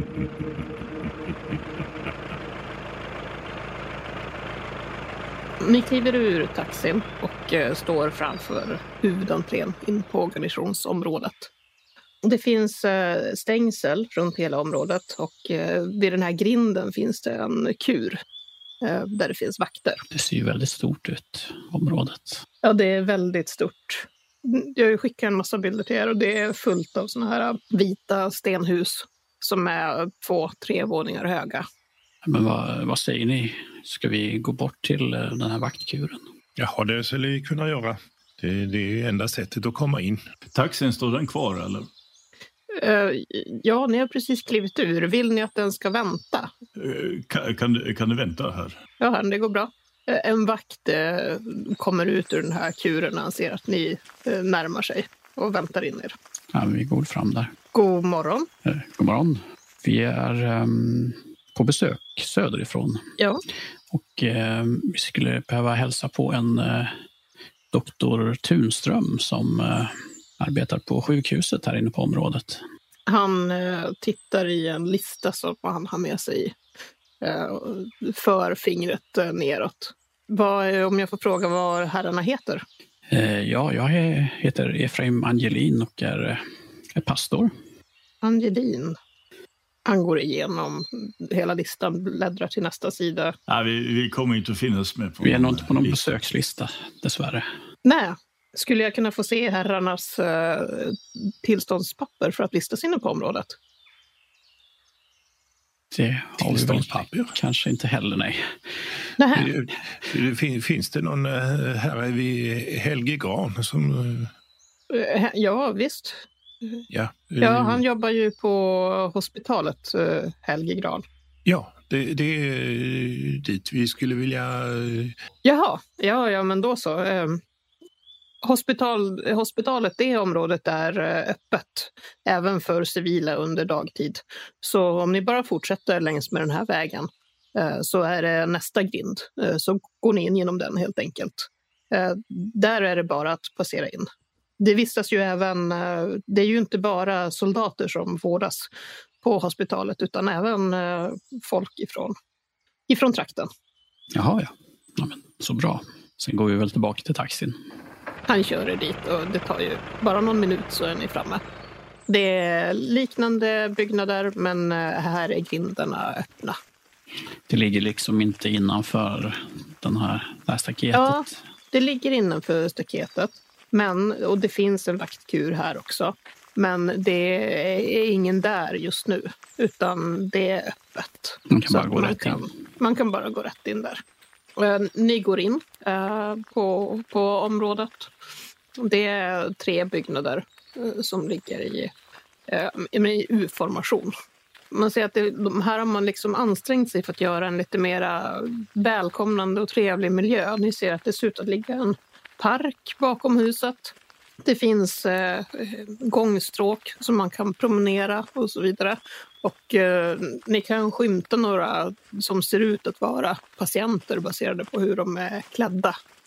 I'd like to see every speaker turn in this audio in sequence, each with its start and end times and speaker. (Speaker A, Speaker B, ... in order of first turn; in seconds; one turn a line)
Speaker A: 5.6-11.5
Speaker A: 12.2-18.2
Speaker A: 18.8-20.0
Speaker B: 20.1-22.4
Speaker A: 22.6-31.6
Speaker B: 32.2-36.2
Speaker C: 36.6-40.2
Speaker D: 40.5-41.9
Speaker A: 42.7-46.5
Speaker D: 46.8-48.8
Speaker A: 49.0-56.1
Speaker B: 56.5-57.5
Speaker A: 57.7-58.5
Speaker B: 58.6-63.0
Speaker B: 63.9-67.0
Speaker B: 67.7-72.6
Speaker A: 73.1-76.5
Speaker A: 77.2-82.6
Speaker B: 83.1-86.4
Speaker B: 87.0-87.5
Speaker A: 88.2-89.0
Speaker A: 89.8-93.3
Speaker D: 93.5-96.1
Speaker B: 95.2-97.5
Speaker A: 97.8-103.5
Speaker B: 105.9-108.5
Speaker C: 106.4-107.3
Speaker A: 109.2-109.5
Speaker C: 109.3-114.3
Speaker A: 114.9-116.8
Speaker C: 116.9-117.8
Speaker A: 117.4-121.0
Speaker C: 121.5-125.2
Speaker A: 125.4-127.4
Speaker A: 128.4-144.1
Speaker A: 144.6-148.7
Speaker A: 149.2-152.1
Speaker A: 152.9-153.5
Speaker B: 154.1-157.6
Speaker A: 158.3-161.4
Speaker A: 162.1-166.6
Speaker B: 167.5-171.4
Speaker A: 170.9-184.0
Speaker B: 181.5-182.4
Speaker A: 184.6-188.1
Speaker A: 188.8-191.9
Speaker A: 192.5-194.1
Speaker A: 194.7-215.9